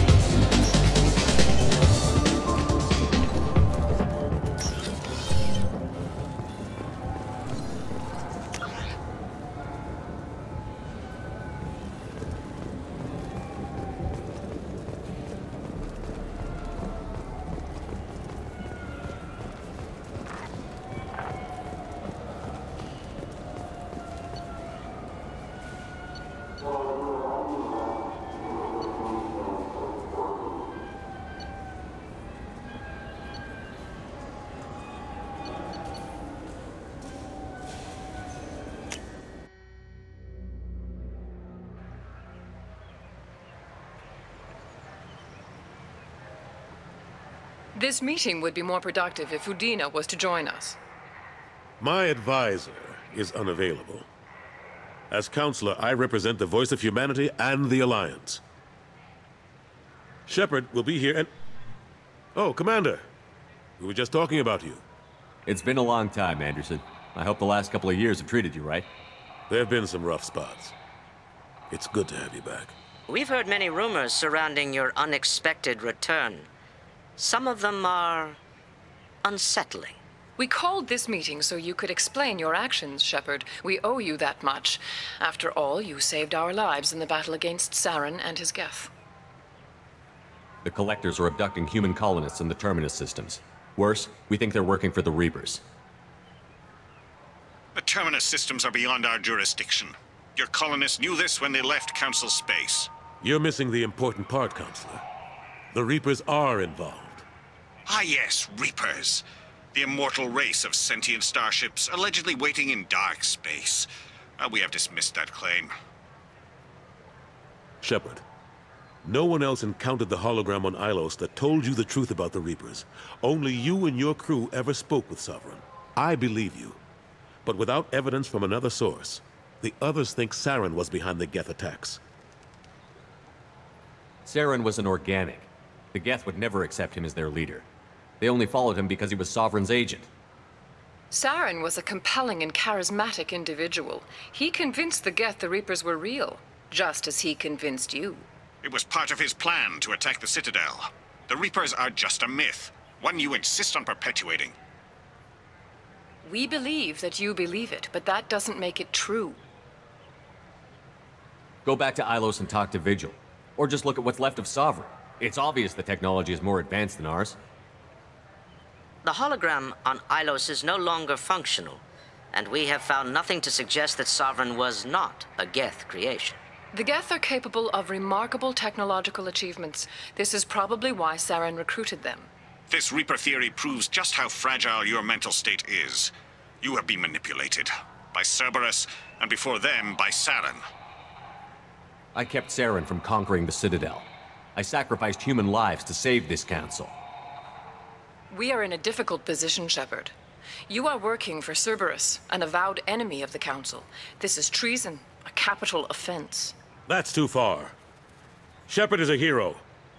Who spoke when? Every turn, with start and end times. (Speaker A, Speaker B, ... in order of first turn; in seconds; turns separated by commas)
Speaker A: 47.7-50.8, Speaker B: 51.8-54.0, Speaker B: 55.1-58.4, Speaker B: 60.3-61.3, Speaker B: 62.3-63.0, Speaker B: 63.8-64.8, Speaker C: 65.5-68.8, Speaker B: 69.5-70.7, Speaker B: 71.7-72.7, Speaker D: 73.1-76.5, Speaker D: 77.2-78.4, Speaker D: 79.2-80.0, Speaker A: 80.4-88.9, Speaker C: 90.6-95.6, Speaker E: 97.7-102.9, Speaker B: 103.2-105.0, Speaker B: 105.7-107.2, Speaker E: 107.9-115.7, Speaker B: 117.8-118.2, Speaker B: 119.0-126.8, Speaker B: 127.4-132.0, Speaker C: 134.2-137.7, Speaker C: 138.2-140.1, Speaker A: 141.1-148.2, Speaker E: 148.6-154.5, Speaker A: 156.2-159.4, Speaker C: 161.6-167.4, Speaker D: 169.0-176.4, Speaker A: 176.7-182.3, Speaker E: 182.7-190.6, Speaker C: 192.1-196.9, Speaker A: 198.3-200.1, Speaker A: 200.7-206.5, Speaker B: 206.9-207.7, Speaker B: 208.7-209.6